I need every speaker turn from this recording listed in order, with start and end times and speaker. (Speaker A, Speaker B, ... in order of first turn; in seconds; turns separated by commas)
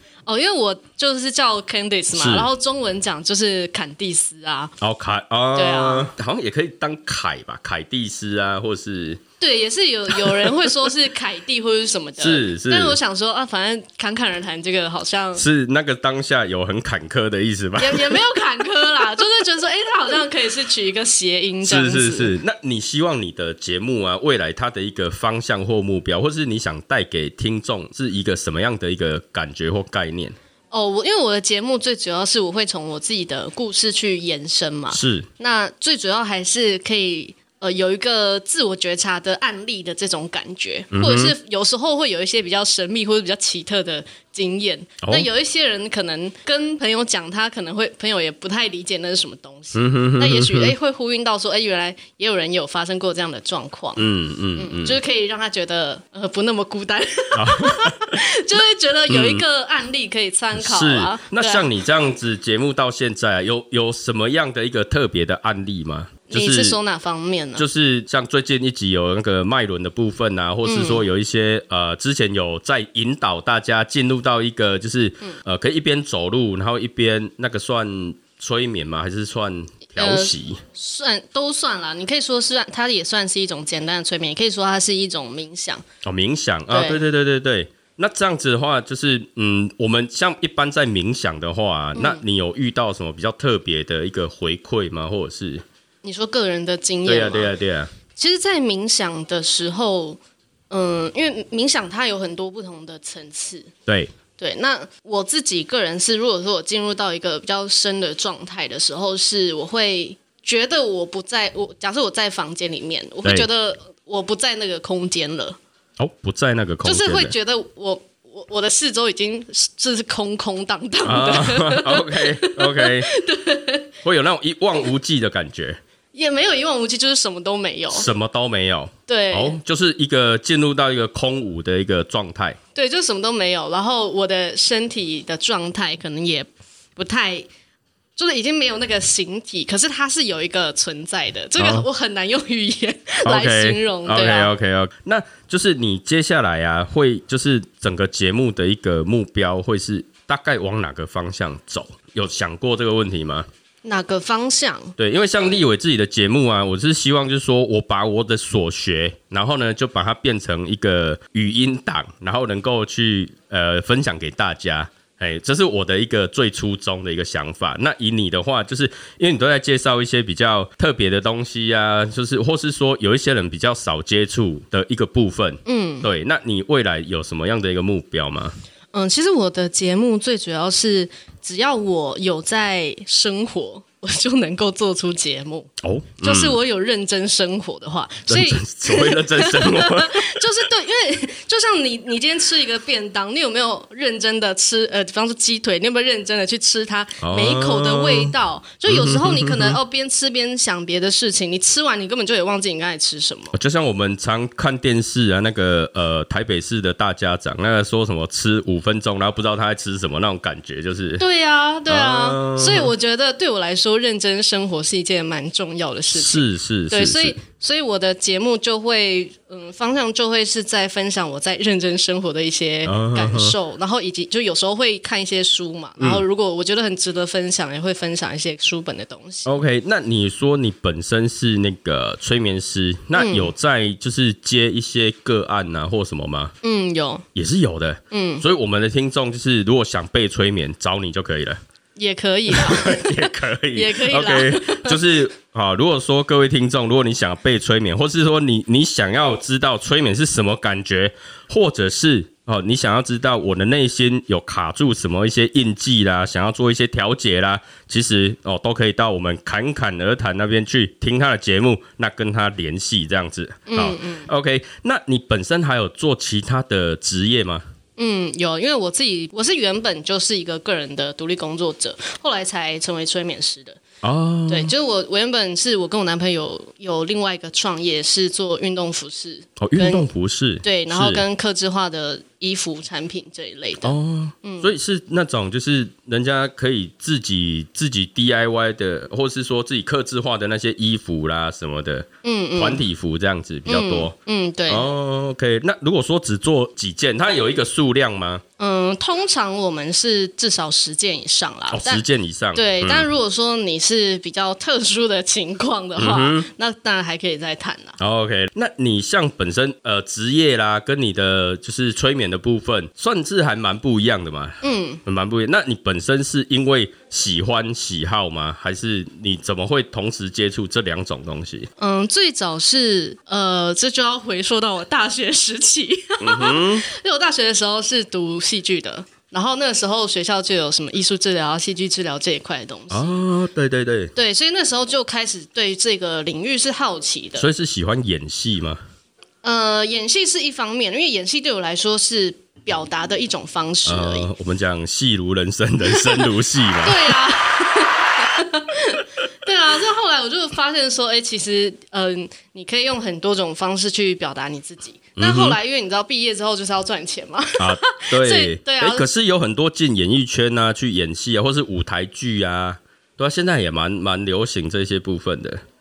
Speaker A: 0.2-4.7, Speaker B: 2.1-2.5, Speaker B: 4.8-9.2, Speaker A: 5.5-6.1, Speaker A: 9.4-15.4, Speaker B: 10.1-10.9, Speaker B: 12.2-13.0, Speaker B: 15.3-18.3, Speaker A: 17.8-22.3, Speaker B: 21.6-30.4, Speaker A: 30.7-61.7, Speaker B: 34.9-35.3, Speaker B: 40.9-41.4, Speaker B: 45.0-45.3, Speaker B: 49.7-50.7, Speaker B: 54.0-55.0, Speaker B: 57.3-59.4, Speaker B: 60.5-66.8, Speaker A: 66.3-67.6, Speaker B: 67.6-80.6, Speaker A: 70.6-71.0, Speaker A: 80.0-85.8, Speaker B: 86.0-95.6, Speaker A: 86.7-87.0, Speaker A: 91.9-92.2, Speaker A: 96.0-97.5, Speaker B: 97.0-97.9, Speaker A: 98.1-100.2, Speaker A: 100.7-103.7, Speaker B: 103.9-104.1, Speaker A: 104.4-115.6, Speaker B: 116.0-117.3, Speaker A: 116.8-123.9, Speaker B: 121.0-123.1, Speaker B: 124.0-125.8, Speaker A: 126.1-128.1, Speaker B: 127.9-132.6, Speaker A: 129.1-129.6, Speaker A: 132.7-137.5, Speaker A: 138.2-144.5, Speaker B: 141.6-141.9, Speaker B: 143.2-153.5, Speaker A: 153.8-154.9, Speaker B: 155.0-178.5, Speaker A: 175.7-176.1, Speaker A: 178.9-203.6, Speaker B: 185.8-186.6, Speaker B: 188.3-190.7, Speaker B: 197.2-198.3, Speaker B: 198.8-199.8, Speaker B: 203.5-211.2, Speaker A: 211.2-229.5, Speaker B: 211.8-212.9, Speaker B: 216.1-217.4, Speaker B: 222.8-223.6, Speaker B: 226.0-226.2, Speaker B: 229.4-236.5, Speaker A: 233.1-233.5, Speaker A: 236.6-237.2, Speaker B: 237.3-241.6, Speaker A: 238.1-238.4, Speaker A: 241.9-245.0, Speaker B: 242.5-267.6, Speaker A: 263.7-264.3, Speaker A: 268.0-273.8, Speaker B: 274.0-274.7, Speaker A: 274.5-280.1, Speaker B: 279.6-281.2, Speaker A: 280.6-284.7, Speaker B: 283.8-294.1, Speaker A: 292.2-292.8, Speaker A: 293.6-294.9, Speaker B: 294.7-298.4, Speaker A: 298.6-308.0, Speaker B: 301.7-303.1, Speaker B: 306.0-306.5, Speaker B: 308.0-321.7, Speaker A: 314.6-315.0, Speaker A: 321.8-333.2, Speaker B: 326.2-326.9, Speaker B: 332.9-334.1, Speaker A: 334.1-337.5, Speaker B: 337.4-338.8, Speaker A: 339.4-344.3, Speaker B: 343.8-347.3, Speaker A: 345.9-346.2, Speaker A: 346.8-359.1, Speaker B: 355.2-355.6, Speaker B: 357.6-365.6